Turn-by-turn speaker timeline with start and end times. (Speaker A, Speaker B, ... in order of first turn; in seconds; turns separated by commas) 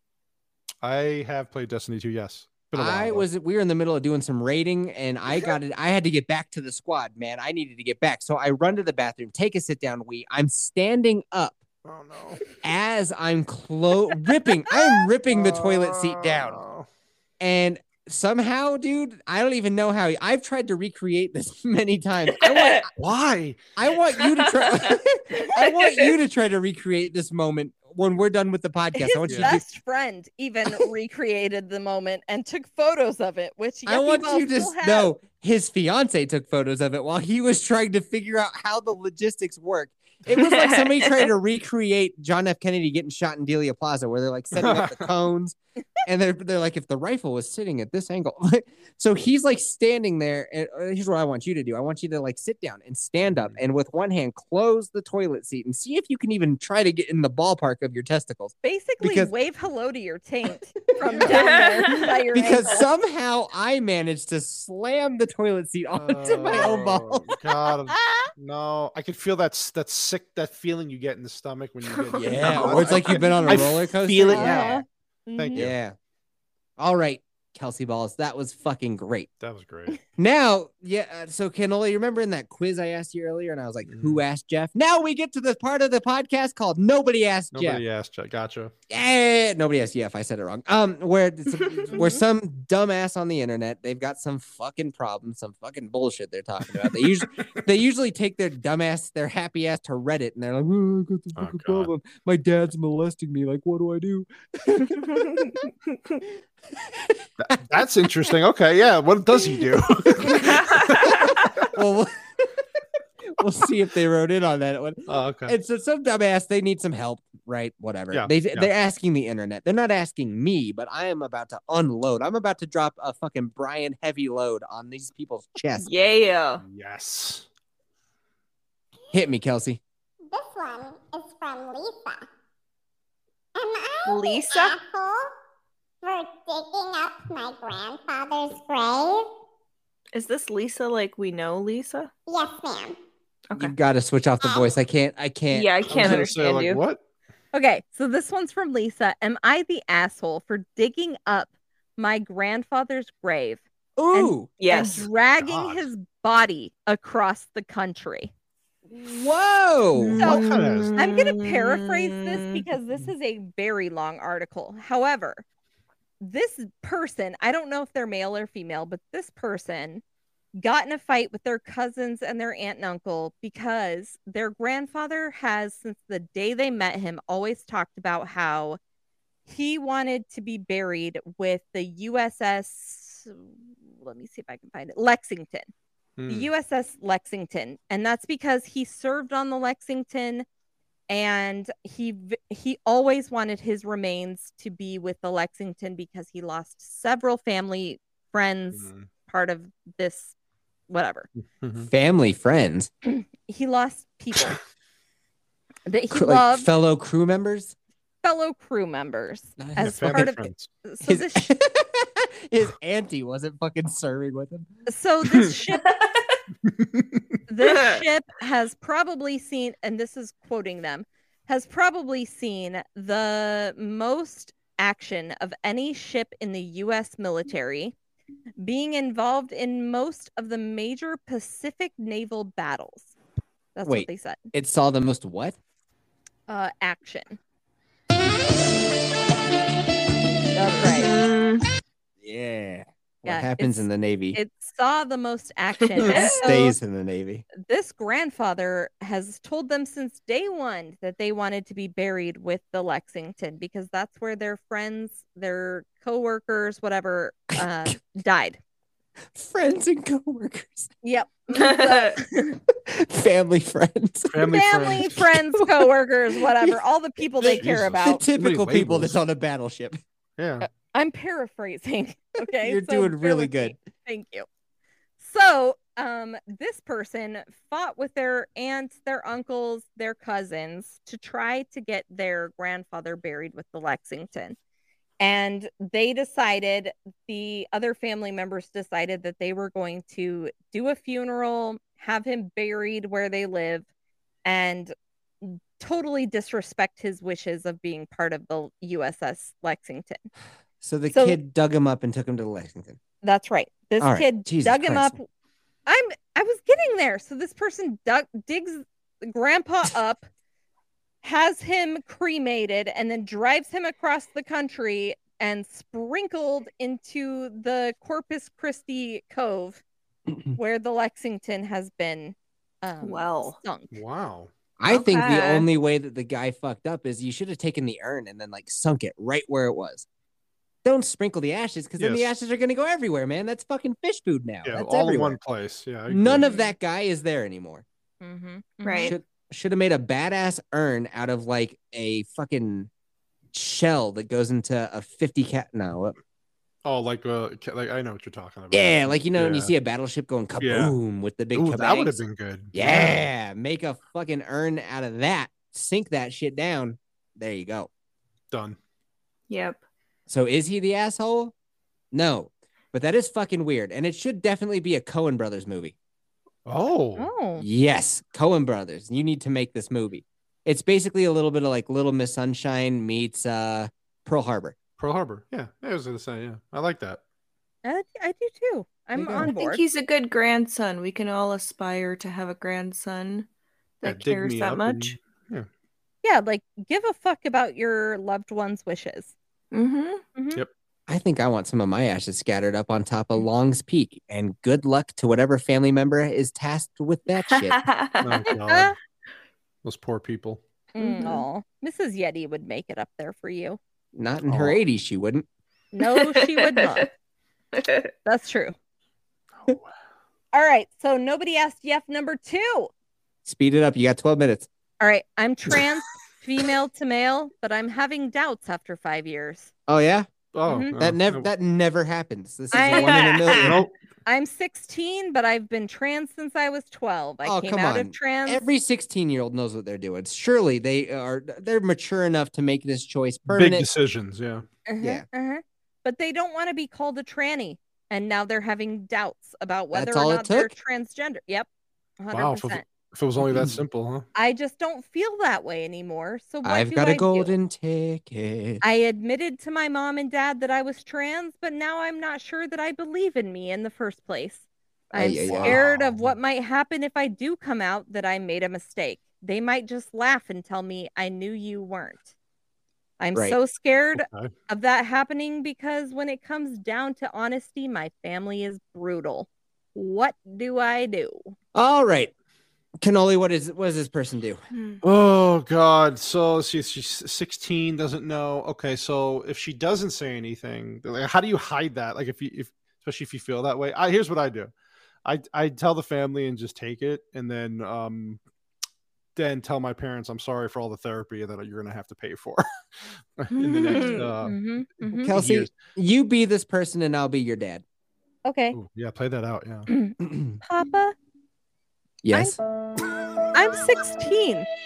Speaker A: 0.8-3.3, Speaker B: 2.7-11.6, Speaker A: 11.8-12.4, Speaker B: 12.6-16.6, Speaker A: 15.3-16.9, Speaker B: 17.4-22.9, Speaker C: 22.5-22.9, Speaker A: 23.0-23.7, Speaker B: 23.8-29.6, Speaker C: 24.2-24.9, Speaker C: 25.6-26.1, Speaker D: 28.9-35.1, Speaker A: 29.3-29.6, Speaker B: 33.9-59.3, Speaker C: 40.4-41.3, Speaker A: 44.5-45.1, Speaker D: 58.6-62.8, Speaker A: 61.1-61.5, Speaker C: 61.4-62.1, Speaker B: 62.0-67.3, Speaker A: 65.9-74.8, Speaker D: 67.9-68.3, Speaker C: 72.1-72.6, Speaker B: 72.2-74.8, Speaker D: 74.3-75.7, Speaker A: 75.4-75.8, Speaker B: 75.5-76.0, Speaker B: 76.8-79.3, Speaker A: 79.4-80.0, Speaker B: 80.2-87.8, Speaker A: 83.9-84.2, Speaker A: 87.5-88.7, Speaker B: 88.9-105.5, Speaker D: 91.9-92.2, Speaker A: 101.3-101.9, Speaker B: 106.8-107.2, Speaker A: 107.4-111.7, Speaker B: 110.2-112.6, Speaker B: 113.4-125.9, Speaker A: 115.1-115.5, Speaker A: 118.1-118.7, Speaker C: 125.8-126.6, Speaker A: 126.6-127.5, Speaker B: 129.1-129.8, Speaker E: 130.3-132.2, Speaker E: 133.6-135.3, Speaker C: 134.1-134.8, Speaker E: 136.0-139.3, Speaker C: 140.1-142.1, Speaker E: 142.3-143.0, Speaker B: 143.6-146.3, Speaker E: 144.4-144.7, Speaker C: 145.5-146.8, Speaker A: 145.9-147.0, Speaker D: 147.5-158.3, Speaker B: 154.0-154.6, Speaker C: 154.6-155.0, Speaker A: 154.9-155.9, Speaker B: 158.9-160.4, Speaker C: 160.0-162.6, Speaker A: 160.2-160.9, Speaker D: 161.0-165.4, Speaker D: 166.2-170.0, Speaker D: 170.6-178.8, Speaker D: 179.5-185.7, Speaker A: 186.2-186.5, Speaker D: 186.3-190.5, Speaker D: 191.1-200.3, Speaker A: 198.7-199.1, Speaker D: 200.9-201.3, Speaker A: 201.6-201.9, Speaker B: 201.8-202.9, Speaker D: 203.1-204.6, Speaker D: 205.9-206.7, Speaker B: 206.1-207.8, Speaker D: 208.2-211.5, Speaker B: 209.6-210.3, Speaker A: 209.8-210.7, Speaker B: 211.0-214.7, Speaker D: 214.9-216.0, Speaker C: 215.8-216.4, Speaker A: 216.7-217.2, Speaker D: 217.5-227.9, Speaker C: 217.6-218.0, Speaker D: 228.6-233.1, Speaker D: 233.8-234.5, Speaker B: 233.8-235.6, Speaker D: 236.5-237.4, Speaker D: 240.6-241.1, Speaker C: 241.0-241.6, Speaker B: 242.2-244.4, Speaker D: 243.3-246.8, Speaker B: 246.0-247.5, Speaker C: 246.1-246.4, Speaker D: 247.6-258.6, Speaker B: 257.6-258.0, Speaker B: 259.3-260.9, Speaker D: 261.0-262.6, Speaker C: 261.5-262.2, Speaker B: 262.9-264.5, Speaker A: 264.3-265.1, Speaker D: 264.5-268.2, Speaker B: 265.3-265.9, Speaker A: 267.4-269.1, Speaker B: 267.4-270.0, Speaker A: 270.4-270.7, Speaker D: 270.6-274.5, Speaker B: 272.4-273.8, Speaker D: 275.2-284.6, Speaker D: 285.2-293.9, Speaker D: 294.4-300.3, Speaker B: 300.8-303.0, Speaker D: 301.1-301.4, Speaker D: 303.2-305.2, Speaker B: 304.0-305.2, Speaker D: 305.9-310.3, Speaker D: 311.2-319.8, Speaker D: 320.6-324.0, Speaker C: 323.0-323.6, Speaker A: 323.9-324.5, Speaker B: 324.8-330.1, Speaker C: 324.9-325.7, Speaker B: 330.8-335.4, Speaker A: 332.0-332.3, Speaker A: 334.6-336.5, Speaker B: 336.1-337.8, Speaker D: 336.5-336.7, Speaker D: 338.2-339.2, Speaker C: 338.8-339.1, Speaker B: 339.0-342.9, Speaker B: 343.5-346.1, Speaker A: 346.9-349.7, Speaker B: 348.7-352.2, Speaker A: 350.6-350.9, Speaker A: 351.5-353.2, Speaker B: 352.7-357.9, Speaker A: 358.5-358.8, Speaker C: 359.5-359.8, Speaker B: 360.3-361.5, Speaker B: 362.1-365.9, Speaker A: 366.7-367.3, Speaker D: 367.2-367.6, Speaker B: 367.6-374.8, Speaker A: 375.0-377.2, Speaker D: 377.8-379.8, Speaker B: 379.2-379.5, Speaker C: 379.5-383.5, Speaker C: 384.0-385.2, Speaker A: 384.0-385.7, Speaker D: 386.2-389.3, Speaker C: 389.7-390.2, Speaker D: 390.4-390.6, Speaker B: 391.1-397.9, Speaker C: 397.5-398.4, Speaker A: 398.2-399.0, Speaker D: 398.6-399.0, Speaker A: 399.8-400.6, Speaker C: 401.0-401.4, Speaker D: 401.0-403.8, Speaker B: 404.1-405.5, Speaker A: 404.5-404.8, Speaker D: 405.9-407.1, Speaker C: 406.2-407.1, Speaker C: 407.8-408.1, Speaker D: 408.2-408.8, Speaker A: 409.6-409.9, Speaker D: 410.5-412.9, Speaker B: 413.4-414.7, Speaker D: 415.0-419.7, Speaker B: 419.9-420.3, Speaker A: 420.5-421.5, Speaker D: 420.7-421.0, Speaker B: 421.0-423.8, Speaker D: 422.7-423.7, Speaker C: 423.0-423.6, Speaker A: 423.6-423.9, Speaker D: 424.3-428.6, Speaker B: 427.4-433.9, Speaker A: 433.5-434.6, Speaker D: 434.9-441.7, Speaker B: 439.9-440.7, Speaker D: 442.2-442.9, Speaker A: 442.3-444.2, Speaker B: 443.4-443.8, Speaker D: 444.4-447.5, Speaker B: 446.6-448.8, Speaker D: 448.8-462.3, Speaker B: 455.1-455.8, Speaker A: 455.5-456.4, Speaker D: 463.2-471.6, Speaker A: 464.1-464.5, Speaker B: 471.8-472.3, Speaker B: 473.0-474.6, Speaker C: 474.7-475.0, Speaker A: 475.0-484.7, Speaker A: 485.2-488.4, Speaker A: 489.4-492.7, Speaker A: 493.4-494.6, Speaker D: 493.6-495.3, Speaker C: 493.9-494.3, Speaker B: 495.2-497.8, Speaker A: 495.3-495.7, Speaker D: 498.5-498.8, Speaker A: 498.7-499.9, Speaker D: 499.9-501.1, Speaker B: 500.2-500.6, Speaker B: 502.2-502.6, Speaker D: 502.3-502.6, Speaker D: 503.5-504.7